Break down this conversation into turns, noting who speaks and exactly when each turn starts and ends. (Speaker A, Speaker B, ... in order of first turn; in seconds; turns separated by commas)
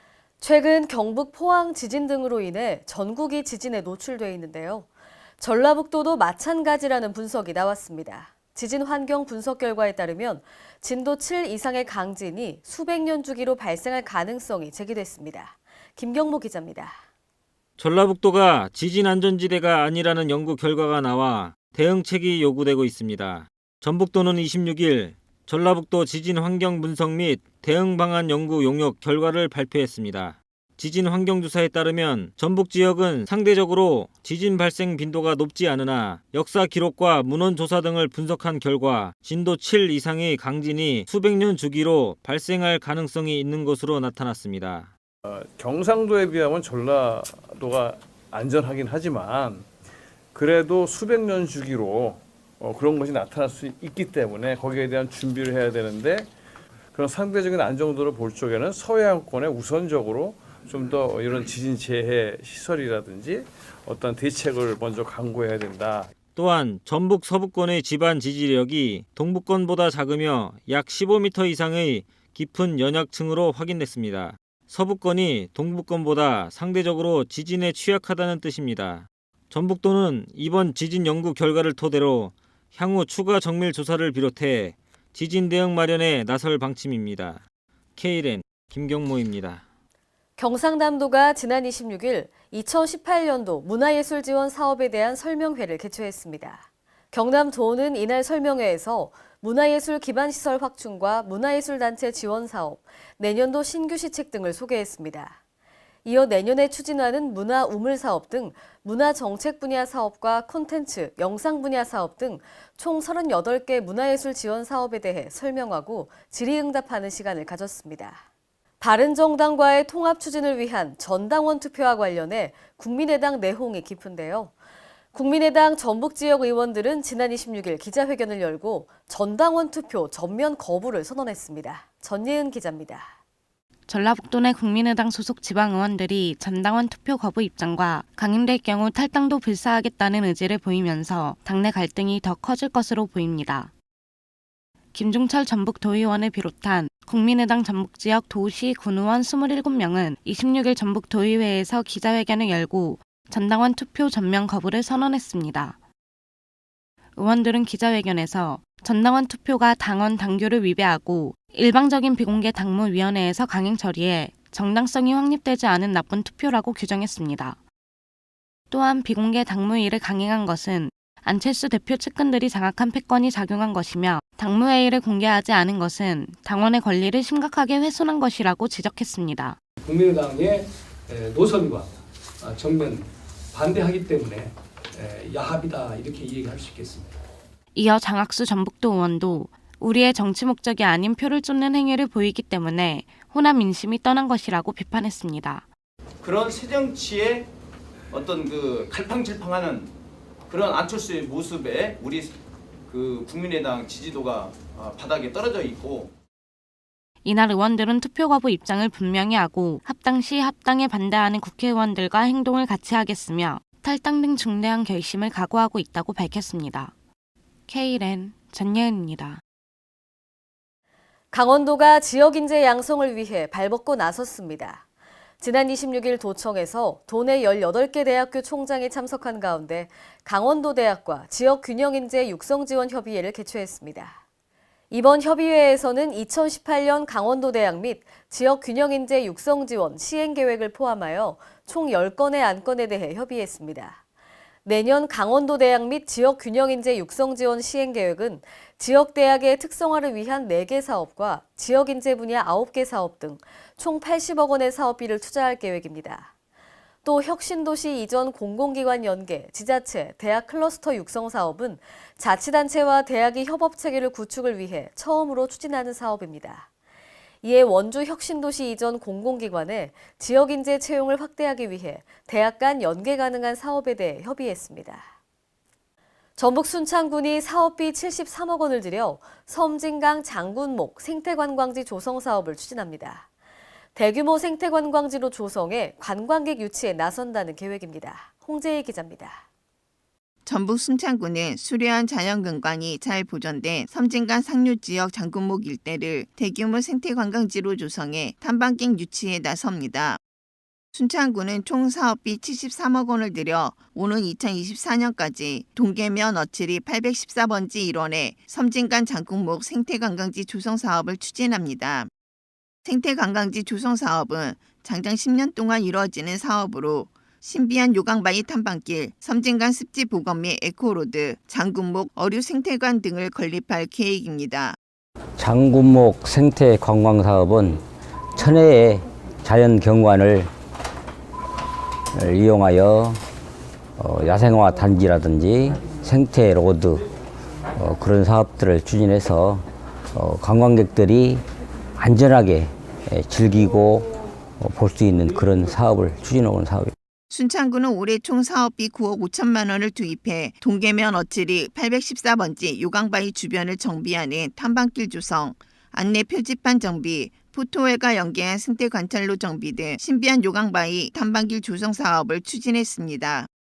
Speaker A: 0.4-4.9, Speaker A: 5.4-17.0, Speaker B: 17.8-44.9, Speaker C: 45.2-49.7, Speaker C: 50.3-56.3, Speaker C: 56.9-66.1, Speaker B: 66.3-87.4, Speaker B: 88.0-89.6, Speaker A: 90.4-105.4, Speaker A: 106.0-118.2, Speaker A: 118.8-124.5, Speaker A: 125.1-133.2, Speaker D: 133.9-143.7, Speaker D: 144.9-155.8, Speaker D: 157.2-167.6, Speaker D: 168.7-179.6, Speaker E: 179.8-187.2, Speaker D: 187.8-195.7, Speaker F: 196.2-197.5, Speaker F: 198.1-199.9, Speaker F: 200.5-202.4, Speaker F: 202.9-206.1, Speaker D: 207.2-216.9, Speaker D: 217.7-219.4, Speaker A: 221.3-224.8, Speaker A: 225.4-234.2, Speaker A: 234.9-244.0, Speaker A: 244.7-256.3, Speaker A: 257.0-266.7, Speaker A: 267.4-275.1, Speaker A: 276.4-283.3, Speaker A: 283.9-289.4, Speaker G: 290.4-300.2, Speaker G: 300.9-312.1, Speaker G: 312.9-324.8, Speaker H: 325.4-327.8, Speaker H: 328.4-330.5, Speaker H: 332.2-333.2, Speaker H: 334.0-337.0, Speaker H: 337.8-341.4, Speaker H: 342.0-344.1, Speaker H: 344.6-346.9, Speaker G: 347.3-363.5